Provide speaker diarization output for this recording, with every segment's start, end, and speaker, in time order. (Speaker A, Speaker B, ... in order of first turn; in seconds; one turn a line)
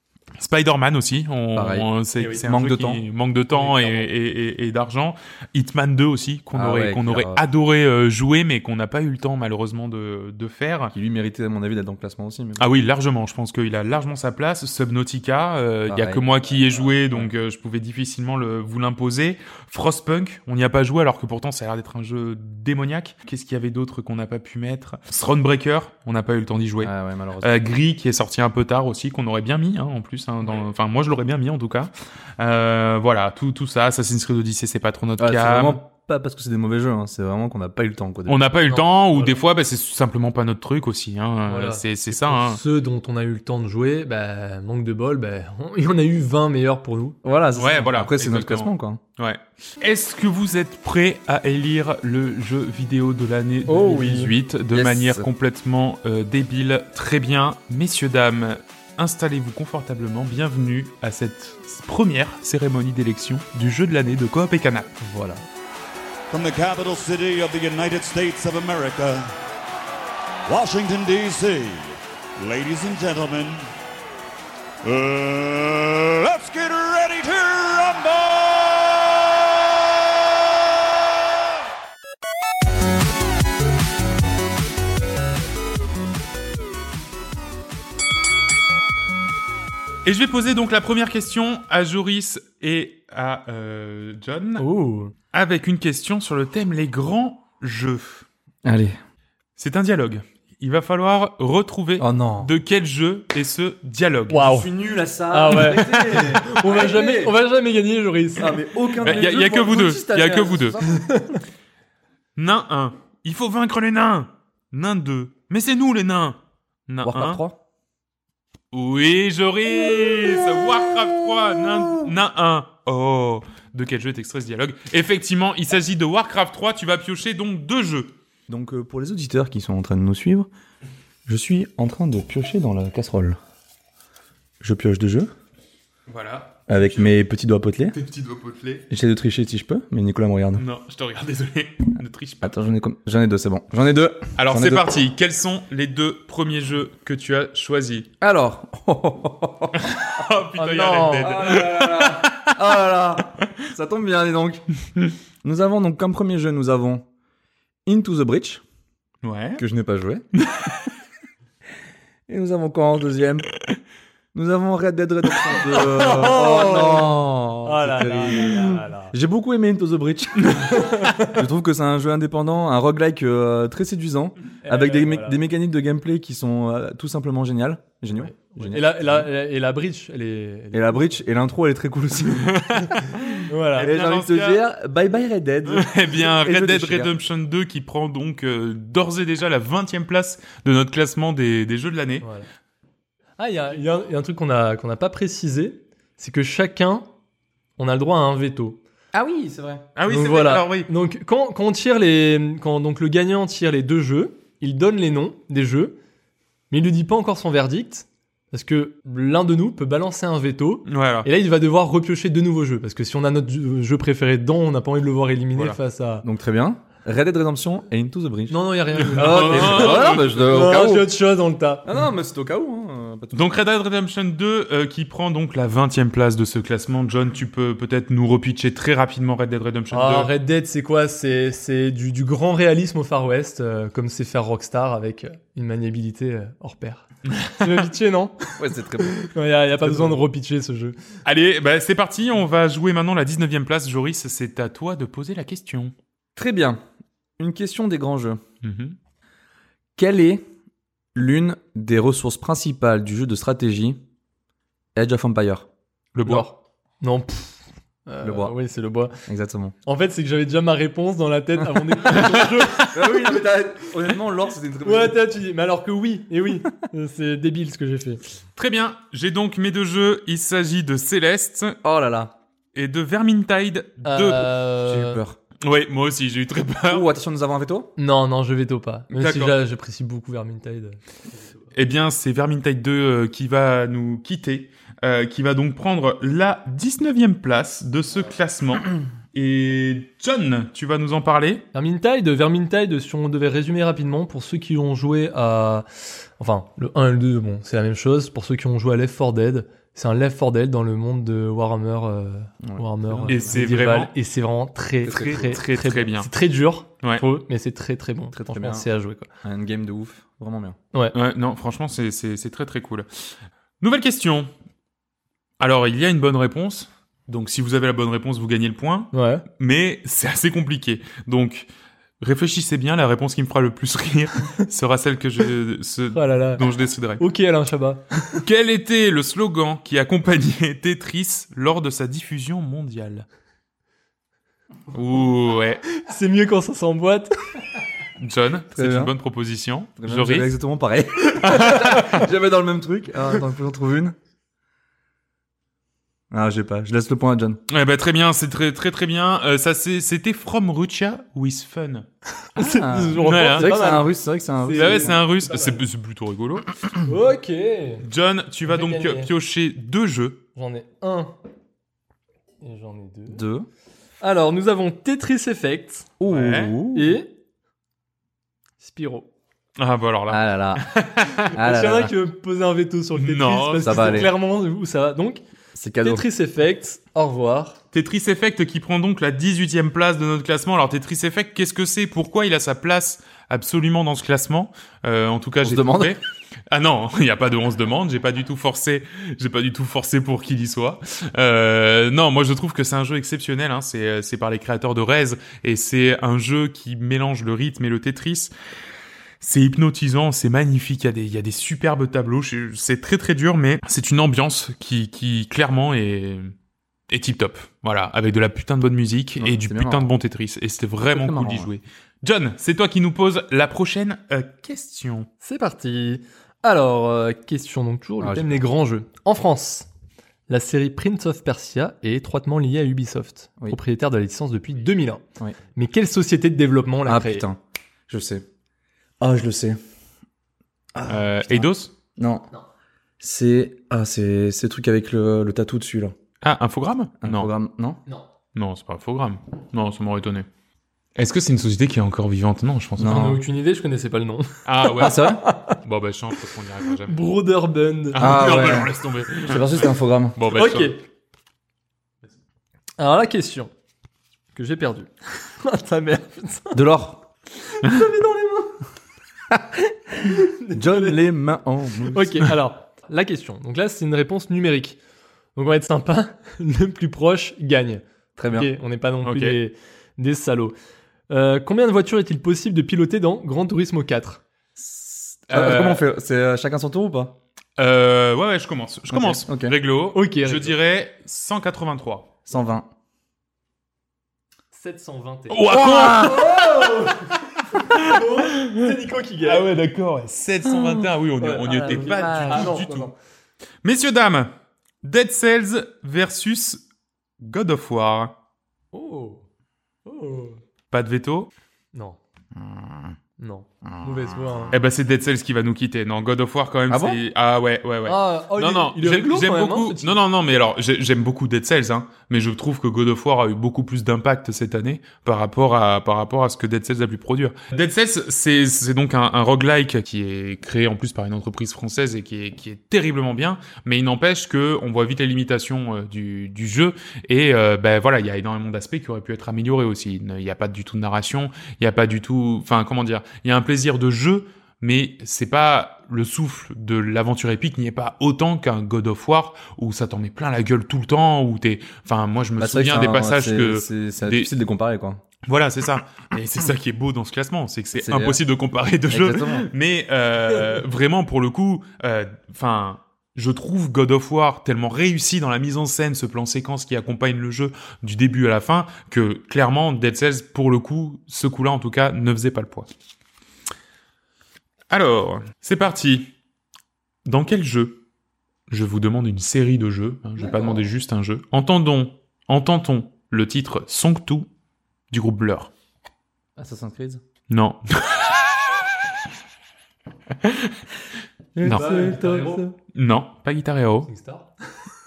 Speaker A: 0.4-10.9
Speaker B: 1.5-1.9
Speaker C: 2.2-2.5
Speaker B: 2.4-3.0
Speaker C: 3.5-4.1
Speaker B: 6.5-7.4
Speaker B: 10.9-12.6
Speaker A: 12.6-35.8
Speaker B: 15.9-17.3
Speaker B: 26.8-27.6
Speaker B: 35.2-38.5
Speaker A: 38.3-42.6
Speaker C: 38.7-39.4
Speaker C: 41.5-47.2
Speaker B: 47.2-49.0
Speaker A: 47.5-64.9
Speaker C: 53.7-54.3
Speaker B: 54.7-55.3
Speaker C: 65.0-65.4
Speaker D: 66.3-69.3
Speaker D: 70.5-73.7
Speaker D: 74.8-79.8
Speaker A: 90.0-94.6
Speaker C: 94.6-95.1
Speaker A: 95.3-98.2
Speaker B: 98.6-99.0
Speaker A: 99.6-104.5
Speaker B: 102.0-102.5
Speaker C: 104.3-104.7
Speaker B: 104.4-107.3
Speaker C: 105.3-109.3
Speaker B: 108.4-110.9
Speaker A: 109.0-110.8
Speaker C: 110.8-111.4
Speaker A: 112.3-117.4
Speaker B: 117.0-117.6
Speaker A: 118.7-128.1
Speaker B: 119.9-120.8
Speaker B: 121.5-122.1
Speaker B: 128.5-130.5
Speaker B: 131.2-133.4
Speaker B: 134.6-135.3
Speaker A: 136.1-137.2
Speaker B: 136.7-137.9
Speaker A: 137.9-138.8
Speaker B: 138.9-140.6
Speaker A: 140.6-142.5
Speaker B: 142.4-145.0
Speaker A: 144.4-148.1
Speaker B: 148.2-149.8
Speaker A: 149.8-152.5
Speaker C: 150.6-151.6
Speaker B: 151.2-154.6
Speaker B: 155.4-157.0
Speaker B: 157.9-158.6
Speaker A: 159.2-159.6
Speaker B: 159.6-160.2
Speaker A: 160.3-160.8
Speaker B: 162.3-163.5
Speaker B: 164.3-179.3
Speaker C: 165.7-169.1
Speaker C: 170.7-171.4
Speaker C: 174.6-175.4
Speaker C: 178.1-181.2
Speaker B: 180.7-182.6
Speaker A: 182.3-184.6
Speaker C: 183.4-184.0
Speaker B: 183.8-187.1
Speaker A: 185.7-192.2
Speaker C: 192.2-192.5
Speaker C: 193.4-197.1
Speaker C: 197.8-198.8
Speaker B: 199.1-199.8
Speaker A: 199.9-200.9
Speaker C: 200.0-206.0
Speaker C: 206.7-216.2
Speaker A: 210.9-211.3
Speaker B: 216.2-221.1
Speaker C: 218.5-221.9
Speaker A: 219.0-220.5
Speaker B: 221.8-223.5
Speaker A: 223.3-230.3
Speaker C: 229.9-241.0
Speaker A: 237.3-237.8
Speaker B: 238.6-239.3
Speaker B: 239.8-240.2
Speaker A: 241.2-245.9
Speaker B: 246.4-246.8
Speaker B: 247.4-248.4
Speaker A: 248.6-248.9
Speaker B: 249.9-250.5
Speaker B: 251.1-254.0
Speaker B: 254.9-255.7
Speaker A: 256.1-256.5
Speaker C: 256.2-259.2
Speaker B: 258.2-258.6
Speaker B: 259.3-259.7
Speaker C: 259.9-263.2
Speaker B: 262.9-265.2
Speaker C: 264.9-268.2
Speaker A: 268.6-271.8
Speaker B: 271.8-272.4
Speaker A: 272.8-274.5
Speaker C: 274.0-275.2
Speaker B: 274.9-275.4
Speaker A: 275.6-277.1
Speaker B: 276.9-277.9
Speaker C: 278.0-281.0
Speaker A: 279.1-279.5
Speaker A: 281.7-291.6
Speaker C: 291.7-295.9
Speaker C: 296.4-309.3
Speaker B: 302.6-303.6
Speaker A: 303.3-304.1
Speaker B: 305.0-305.6
Speaker A: 305.3-306.3
Speaker B: 308.3-308.9
Speaker B: 309.4-310.8
Speaker A: 311.1-313.1
Speaker A: 313.8-314.5
Speaker A: 315.6-321.7
Speaker C: 319.1-319.4
Speaker A: 322.2-327.2
Speaker C: 326.1-326.6
Speaker C: 327.2-328.1
Speaker A: 328.3-333.2
Speaker A: 334.9-335.8
Speaker C: 336.0-337.3
Speaker A: 338.2-340.5
Speaker B: 338.7-339.1
Speaker B: 340.0-344.1
Speaker A: 341.4-342.2
Speaker B: 346.3-347.6
Speaker A: 347.7-352.1
Speaker B: 352.6-355.1
Speaker C: 352.6-355.8
Speaker A: 353.2-353.9
Speaker A: 354.8-356.7
Speaker C: 357.0-358.0
Speaker A: 358.0-360.4
Speaker C: 358.6-359.3
Speaker C: 360.6-361.3
Speaker C: 362.6-363.4
Speaker B: 363.3-363.7
Speaker C: 364.2-366.1
Speaker B: 366.2-367.2
Speaker A: 366.2-366.8
Speaker C: 366.9-367.3
Speaker C: 368.8-369.3
Speaker A: 369.8-371.4
Speaker B: 370.3-370.9
Speaker B: 371.5-372.1
Speaker C: 371.5-375.4
Speaker A: 373.1-374.3
Speaker B: 373.8-374.3
Speaker B: 375.8-376.2
Speaker C: 376.0-377.8
Speaker A: 377.9-398.5
Speaker B: 385.6-386.2
Speaker A: 399.4-406.5
Speaker A: 407.1-415.3
Speaker B: 409.4-410.1
Speaker B: 411.1-411.7
Speaker C: 415.4-419.9
Speaker B: 418.2-418.6
Speaker C: 420.5-425.2
Speaker C: 425.8-427.4
Speaker B: 427.0-428.4
Speaker B: 429.2-429.8
Speaker B: 430.9-432.5
Speaker A: 431.1-431.9
Speaker B: 433.2-436.1
Speaker A: 436.4-437.5
Speaker B: 437.2-438.0
Speaker A: 438.5-440.4
Speaker A: 441.1-443.3
Speaker B: 443.0-443.4
Speaker C: 443.0-445.8
Speaker A: 444.6-447.2
Speaker B: 445.0-445.4
Speaker C: 447.0-448.4
Speaker A: 448.1-450.9
Speaker B: 448.2-450.4
Speaker C: 450.5-451.0
Speaker C: 453.0-453.7
Speaker C: 454.5-456.8
Speaker B: 456.7-457.2
Speaker C: 457.7-458.8
Speaker B: 459.5-460.2
Speaker C: 460.2-461.2
Speaker B: 460.7-462.5
Speaker C: 462.1-465.0
Speaker C: 465.6-470.8
Speaker B: 468.4-468.7
Speaker A: 469.2-469.6
Speaker C: 471.3-474.4
Speaker A: 475.5-476.0
Speaker B: 475.5-477.4
Speaker A: 477.8-482.3
Speaker B: 479.1-479.8
Speaker C: 480.1-480.8
Speaker B: 482.5-482.9
Speaker C: 484.7-489.6
Speaker A: 485.5-487.2
Speaker B: 485.7-486.5
Speaker A: 487.9-493.1
Speaker B: 490.6-492.9
Speaker C: 491.4-493.1
Speaker A: 493.8-494.5
Speaker A: 495.0-496.8
Speaker A: 497.4-498.4
Speaker C: 498.9-499.4
Speaker C: 500.1-500.6
Speaker A: 500.9-501.5
Speaker C: 501.9-502.2
Speaker C: 503.4-504.8
Speaker A: 504.7-544.5
Speaker B: 506.9-507.2
Speaker C: 508.0-510.2
Speaker B: 542.6-545.2
Speaker A: 545.5-562.9
Speaker B: 547.9-548.4
Speaker B: 549.1-549.7
Speaker A: 564.9-566.3
Speaker A: 567.2-568.0
Speaker A: 568.7-574.5
Speaker B: 570.4-570.8
Speaker A: 575.1-575.7
Speaker B: 576.5-577.2
Speaker A: 577.5-578.4
Speaker A: 580.4-580.8
Speaker B: 581.5-582.8
Speaker C: 581.6-582.6
Speaker A: 581.6-581.9
Speaker A: 582.9-584.1
Speaker C: 584.0-584.5